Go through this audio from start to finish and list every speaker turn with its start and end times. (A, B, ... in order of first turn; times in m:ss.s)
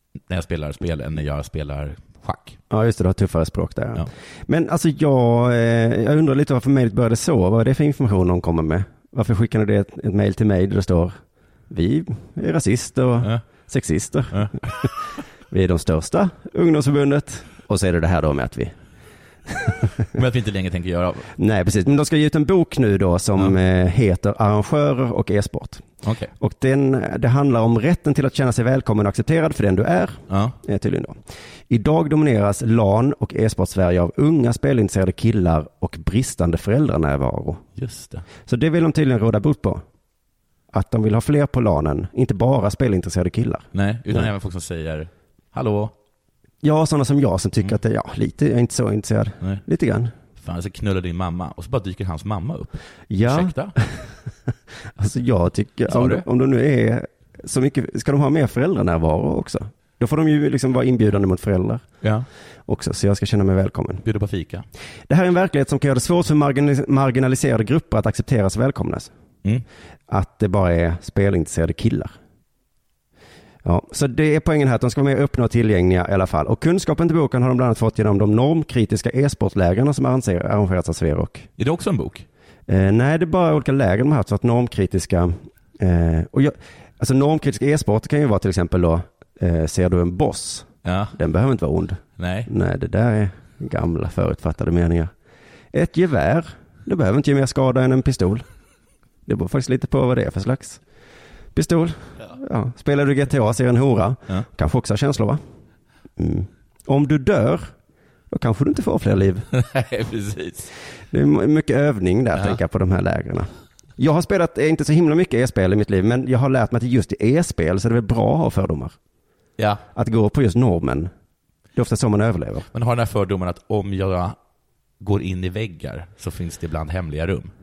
0:00.3-0:02.6 A
0:02.7-0:14.9 B
0:14.3-0:14.6 A
0:15.5-0:18.8 B
0:19.5-0:20.0 B
0:20.1-0:21.3 A
0:21.4-0:25.8 B
0:26.0-0:26.3 A
0:26.4-0:31.2 B
0:30.3-0:30.6 A
0:31.7-0:37.6 B
0:37.8-0:38.3 A
0:38.5-0:39.8 B
0:40.7-0:44.3 B
0:43.7-0:45.9 A
0:46.6-0:50.1 B
0:50.4-0:53.8 A
0:53.1-0:54.1 B
0:55.0-1:01.8 B
0:55.9-0:56.2 A
1:02.7-1:04.0 B
1:04.0-1:04.7 A
1:05.1-1:09.1 B
1:10.1-1:12.2 B
1:13.6-1:21.5 B
1:21.6-1:22.3 A
1:22.7-1:35.1 B
1:30.8-1:31.2 A
1:32.2-1:32.5 A
1:35.7-1:38.4 B
1:39.3-1:40.8 B
1:41.6-1:45.4 B
1:46.2-1:47.7 B
1:48.3-1:49.5 B
1:49.5-1:50.7 A
1:51.1-1:59.0 B
1:59.6-1:59.8 A
2:00.0-2:01.1 B
2:01.8-2:02.7 B
2:02.7-2:04.4 A
2:05.0-2:07.5 A